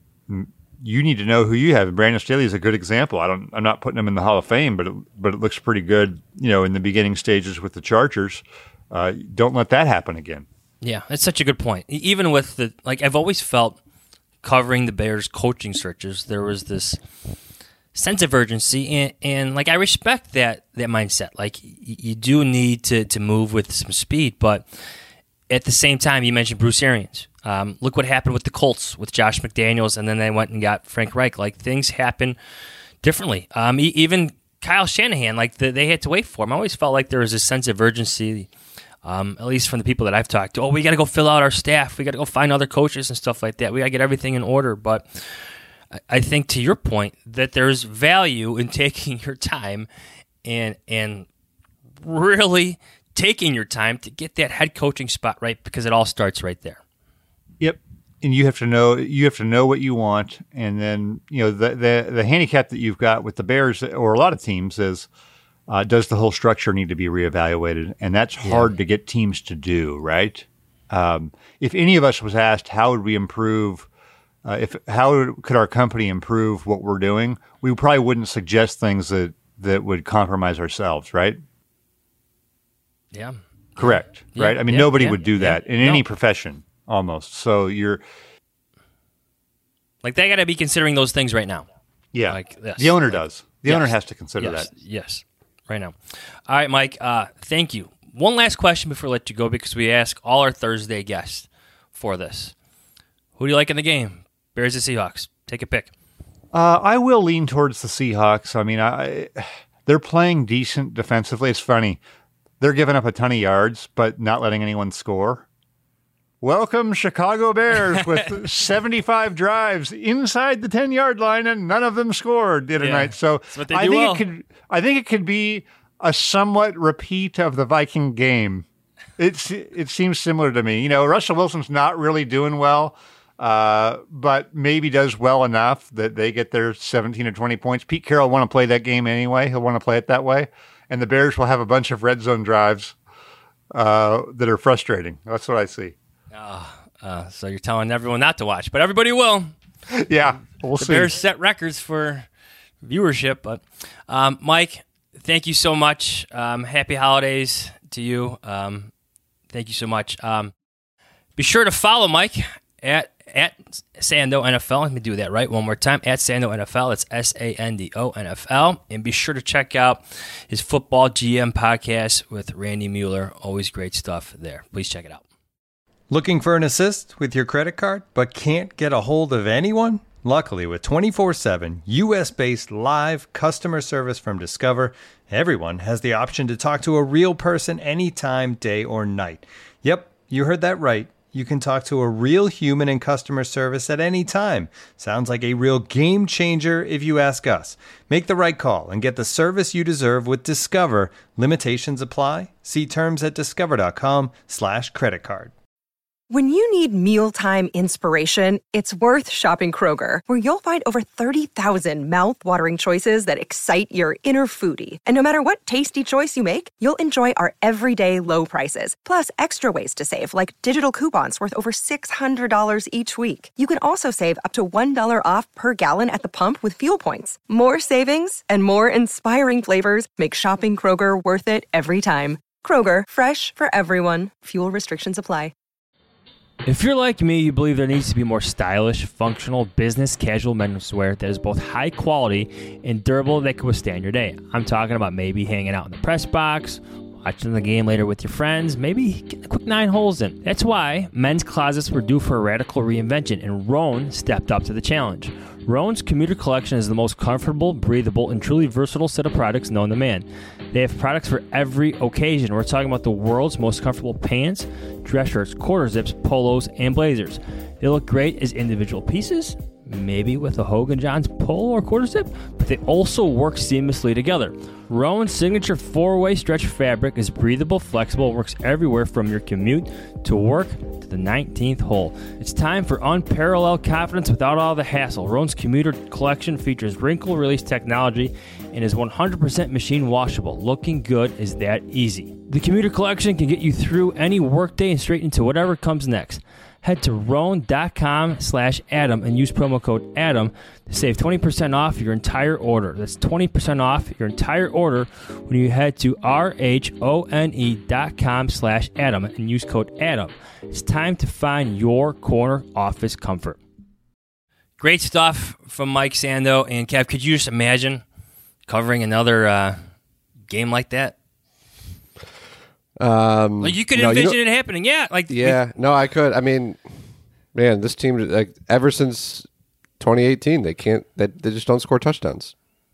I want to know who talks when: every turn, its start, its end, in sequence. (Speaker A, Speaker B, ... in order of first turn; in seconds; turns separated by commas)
Speaker A: 0.3-10.5, Speaker B: 10.8-13.8, Speaker B: 14.4-17.0, Speaker B: 17.9-24.7, Speaker B: 25.5-32.4, Speaker B: 33.0-38.5, Speaker B: 39.0-45.2, Speaker B: 45.9-49.9, Speaker B: 50.4-51.3, Speaker B: 52.0-56.8, Speaker A: 57.6-65.1, Speaker A: 65.7-73.9, Speaker B: 68.4-68.8, Speaker A: 74.5-81.4, Speaker B: 83.1-86.0, Speaker A: 83.8-88.0, Speaker B: 90.0-91.7, Speaker A: 92.1-94.7, Speaker B: 92.3-102.5, Speaker B: 103.4-105.9, Speaker A: 106.5-112.0, Speaker A: 112.6-115.5, Speaker A: 116.4-128.7, Speaker B: 117.9-118.4, Speaker B: 122.8-124.2, Speaker A: 129.2-142.9, Speaker A: 143.7-145.9, Speaker B: 146.3-149.5, Speaker A: 149.9-151.2, Speaker B: 150.8-152.3, Speaker B: 152.8-158.9, Speaker B: 159.5-160.5, Speaker B: 161.4-175.2, Speaker C: 176.1-205.5, Speaker D: 206.3-235.5, Speaker B: 236.7-313.6, Speaker B: 314.8-318.0, Speaker B: 318.7-319.8, Speaker B: 320.5-321.1, Speaker E: 323.0-324.4, Speaker B: 323.6-325.6, Speaker E: 325.3-326.8, Speaker E: 327.5-329.5, Speaker E: 330.0-332.5